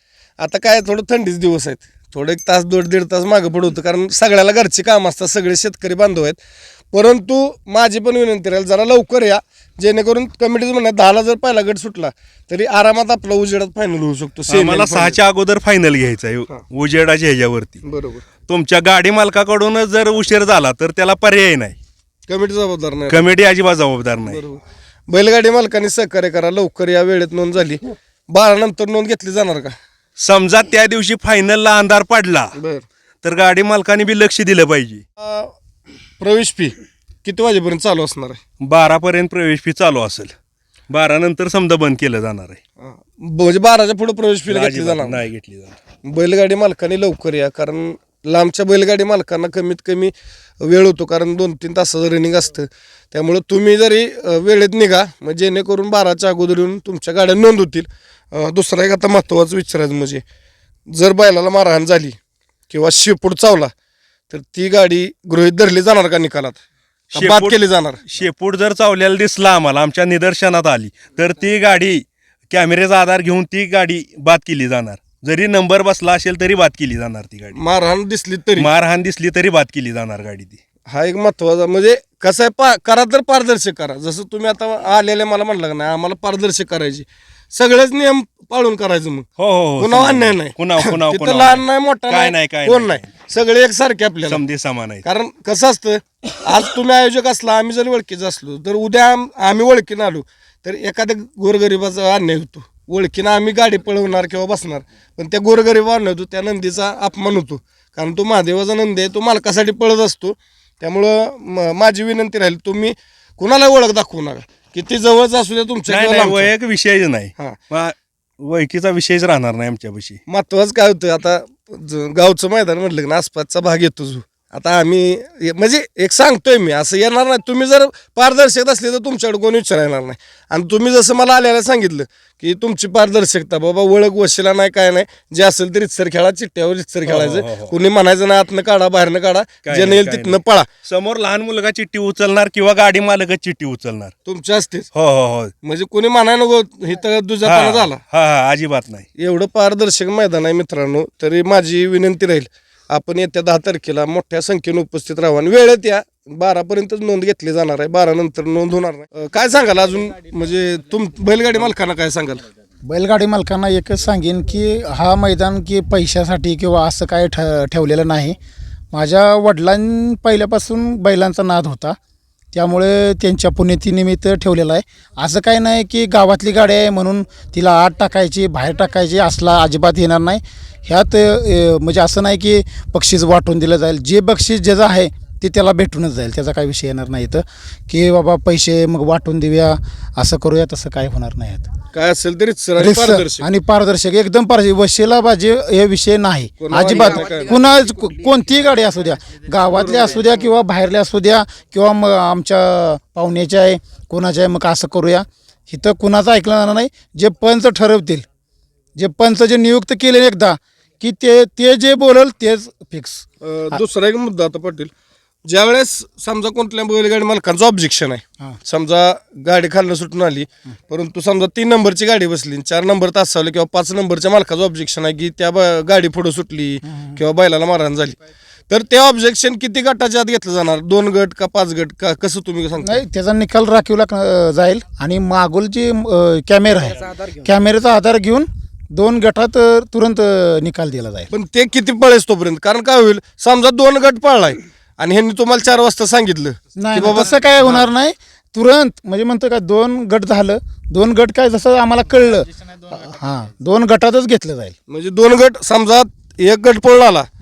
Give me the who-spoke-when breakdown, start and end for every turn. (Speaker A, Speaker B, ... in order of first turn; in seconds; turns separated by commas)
Speaker A: 0.4-6.4, Speaker A: 6.9-15.2, Speaker B: 14.5-17.8, Speaker A: 17.8-18.2, Speaker B: 18.5-21.8, Speaker A: 22.3-23.3, Speaker B: 23.1-24.4, Speaker A: 24.2-29.8, Speaker B: 30.2-32.5, Speaker A: 32.6-32.9, Speaker B: 33.2-35.0, Speaker A: 35.2-35.5, Speaker A: 36.2-38.4, Speaker B: 38.6-40.3, Speaker B: 40.9-42.6, Speaker A: 42.8-45.2, Speaker B: 44.5-45.8, Speaker A: 46.0-60.2, Speaker A: 60.9-62.2, Speaker A: 62.7-63.7, Speaker A: 64.3-66.6, Speaker A: 67.1-68.0, Speaker B: 67.1-77.6, Speaker A: 77.5-78.7, Speaker B: 78.6-80.6, Speaker A: 80.9-89.2, Speaker B: 89.4-93.1, Speaker A: 89.8-94.4, Speaker B: 94.2-95.0, Speaker A: 95.0-116.5, Speaker B: 115.9-120.2, Speaker A: 120.3-140.7, Speaker B: 137.1-137.7, Speaker B: 139.7-144.1, Speaker A: 144.2-144.9, Speaker B: 144.9-145.5, Speaker A: 145.6-148.0, Speaker B: 147.4-149.1, Speaker A: 149.2-162.4, Speaker C: 162.8-168.4, Speaker C: 168.9-172.0, Speaker C: 172.5-191.7, Speaker A: 191.9-193.5, Speaker C: 192.8-208.2, Speaker A: 196.6-197.6, Speaker A: 199.7-200.3, Speaker C: 209.0-213.8, Speaker A: 213.4-214.9, Speaker A: 215.5-228.2, Speaker C: 226.9-227.2, Speaker A: 228.7-233.0, Speaker C: 232.8-241.3, Speaker A: 241.3-247.9, Speaker C: 246.8-254.8, Speaker A: 254.9-257.3